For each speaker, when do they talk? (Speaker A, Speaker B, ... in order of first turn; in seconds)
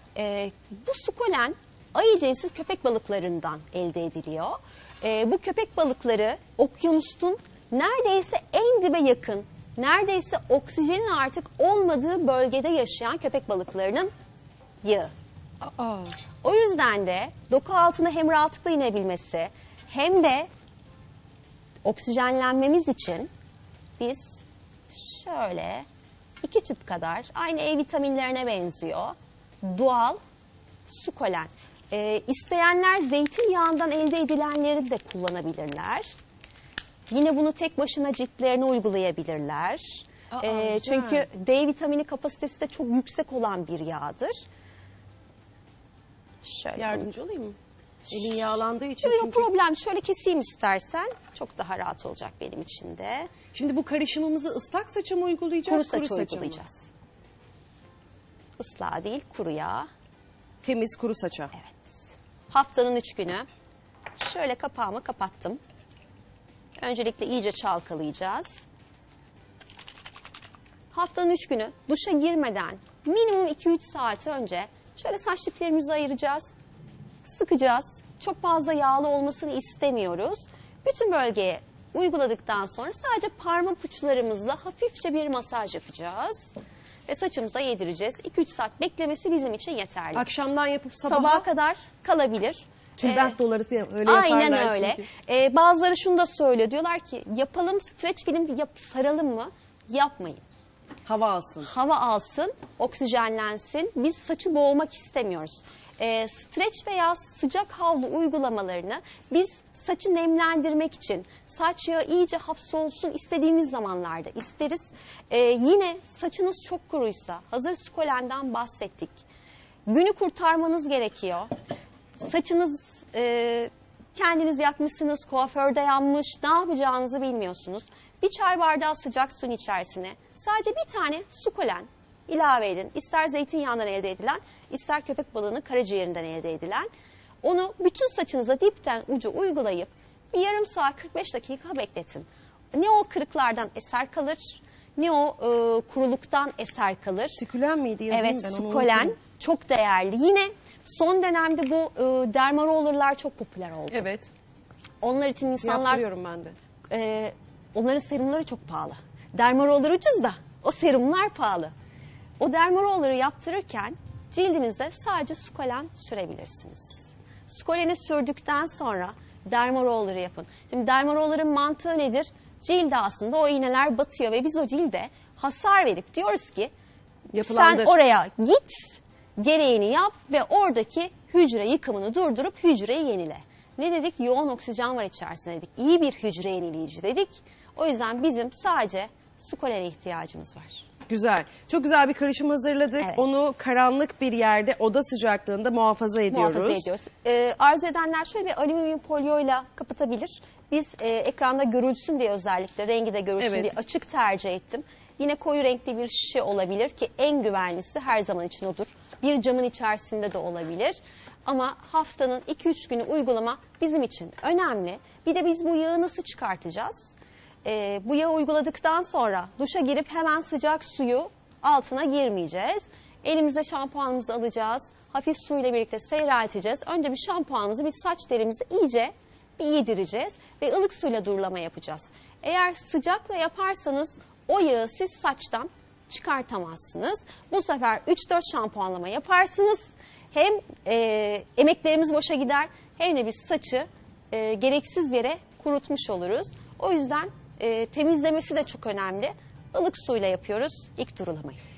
Speaker A: 0.1-14.1, 14.8-15.1, 16.4-20.5, 21.8-23.3, 24.0-25.9, 26.4-30.2, 30.9-36.1, 37.1-44.4, 46.4-47.1, 48.1-53.3, 55.7-56.9, 58.6-59.9, 61.5-61.9, 62.5-63.5, 64.2-65.6, 66.8-68.6, 70.9-76.5, 77.2-86.5, 87.1-90.3, 91.0-93.4, 94.0-100.4, 101.6-119.2, 119.9-121.5, 122.2-136.9, 137.4-147.4, 148.1-154.1, 155.0-156.0, 156.9-161.7, 162.4-176.7, 177.4-190.9, 196.3-217.1, 217.6-251.6
Speaker B: 15.6-16.1, 40.3-41.3, 46.8-47.6, 48.1-49.5, 53.5-56.6, 60.6-61.5, 90.2-91.5, 93.0-95.1, 101.1-101.7, 147.4-149.1, 153.9-154.3, 155.6-156.6, 177.3-178.0, 191.1-196.8, 203.4-203.7